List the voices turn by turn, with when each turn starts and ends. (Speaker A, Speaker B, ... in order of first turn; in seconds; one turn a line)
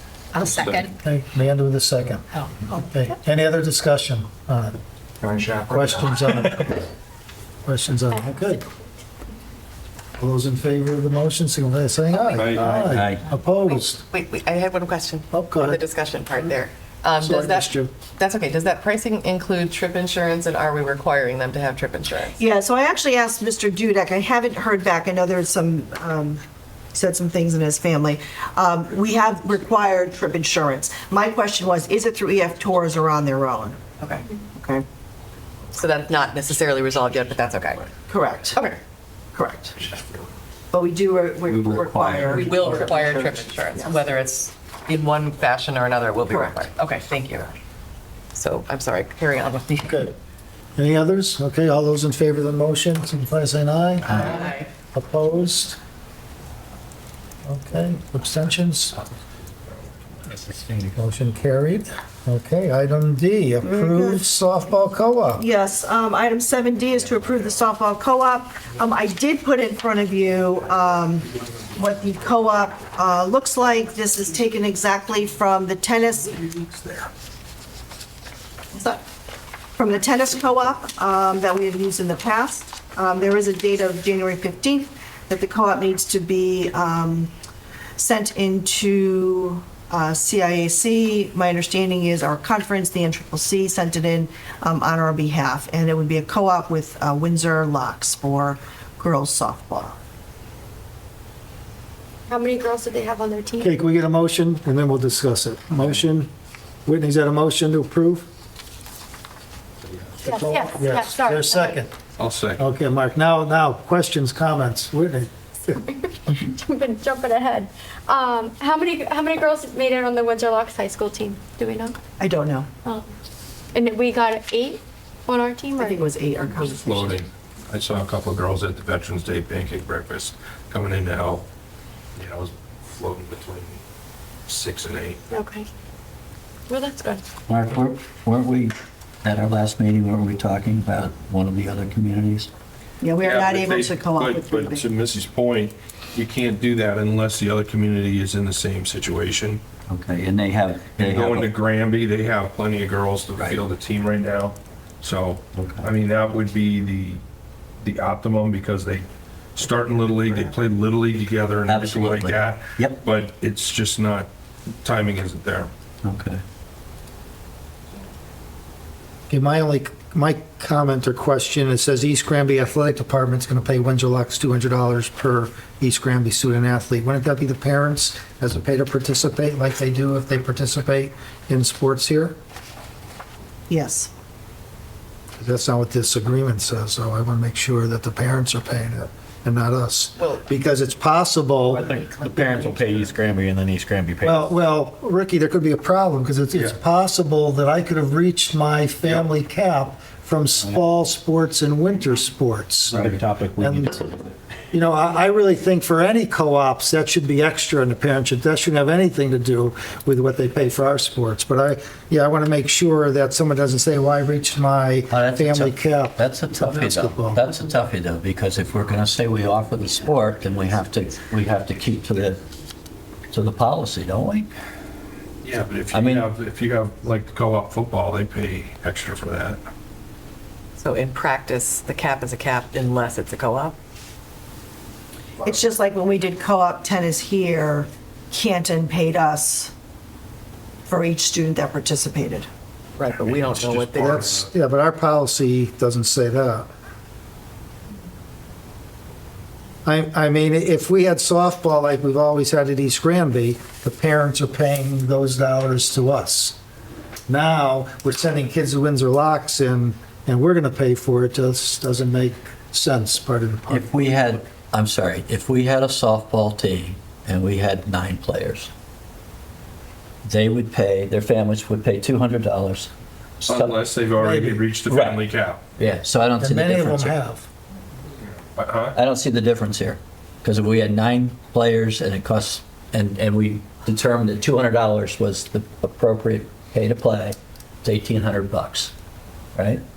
Speaker A: 0.4-0.9
Speaker B: 1.0-2.3
Speaker B: 2.9-4.8
Speaker C: 5.2-5.9
Speaker B: 5.7-6.9
Speaker B: 7.7-8.6
Speaker B: 10.2-14.0
Speaker A: 12.3-12.8
Speaker D: 12.8-13.2
Speaker E: 13.7-22.4
Speaker B: 15.3-15.8
Speaker B: 17.2-17.9
Speaker F: 22.4-26.4
Speaker F: 26.9-34.9
Speaker E: 35.7-37.9
Speaker F: 38.1-38.6
Speaker F: 39.3-39.8
Speaker F: 40.7-43.9
Speaker D: 41.5-42.9
Speaker E: 42.3-47.5
Speaker F: 46.3-46.6
Speaker E: 48.3-50.1
Speaker B: 50.8-55.8
Speaker E: 54.2-54.7
Speaker B: 57.5-59.0
Speaker C: 60.3-60.9
Speaker B: 61.0-65.5
Speaker F: 63.6-64.3
Speaker F: 65.4-77.1
Speaker F: 78.7-79.0
Speaker F: 79.8-87.3
Speaker F: 88.0-100.0
Speaker G: 102.3-103.7
Speaker B: 103.6-106.3
Speaker B: 106.9-108.3
Speaker G: 110.2-111.8
Speaker B: 110.2-111.9
Speaker A: 112.2-112.6
Speaker B: 112.6-115.8
Speaker G: 116.3-122.0
Speaker F: 122.2-122.7
Speaker G: 123.7-126.1
Speaker F: 125.8-127.2
Speaker A: 126.7-131.4
Speaker A: 132.2-133.8
Speaker A: 134.5-135.2
Speaker G: 135.3-135.7
Speaker G: 136.7-137.2
Speaker D: 137.5-142.5
Speaker F: 143.0-144.9
Speaker A: 143.2-149.6
Speaker D: 149.9-151.5
Speaker A: 151.0-157.2
Speaker D: 153.4-153.6
Speaker D: 155.5-155.9
Speaker A: 157.8-159.1
Speaker A: 159.6-164.3
Speaker D: 161.7-163.0
Speaker A: 164.8-165.7
Speaker D: 166.0-166.4
Speaker B: 169.3-182.4
Speaker F: 183.7-184.1
Speaker B: 185.4-191.9
Speaker C: 191.7-194.5
Speaker B: 194.2-203.9
Speaker C: 202.9-204.3
Speaker B: 204.7-217.4
Speaker D: 215.1-222.4
Speaker D: 223.3-224.5
Speaker A: 225.4-229.6
Speaker D: 225.9-226.3
Speaker E: 230.8-233.8
Speaker F: 235.4-239.7
Speaker F: 240.9-242.5
Speaker E: 243.0-244.3
Speaker A: 243.3-244.4
Speaker B: 243.9-246.7
Speaker B: 249.8-256.6
Speaker B: 257.3-263.9
Speaker D: 263.7-268.7
Speaker D: 270.2-272.9
Speaker D: 273.4-273.8
Speaker A: 273.4-275.6
Speaker B: 274.2-274.8
Speaker D: 274.9-275.2
Speaker D: 275.8-277.2
Speaker B: 276.4-277.5
Speaker A: 278.6-279.0
Speaker D: 278.9-288.9
Speaker D: 289.6-289.8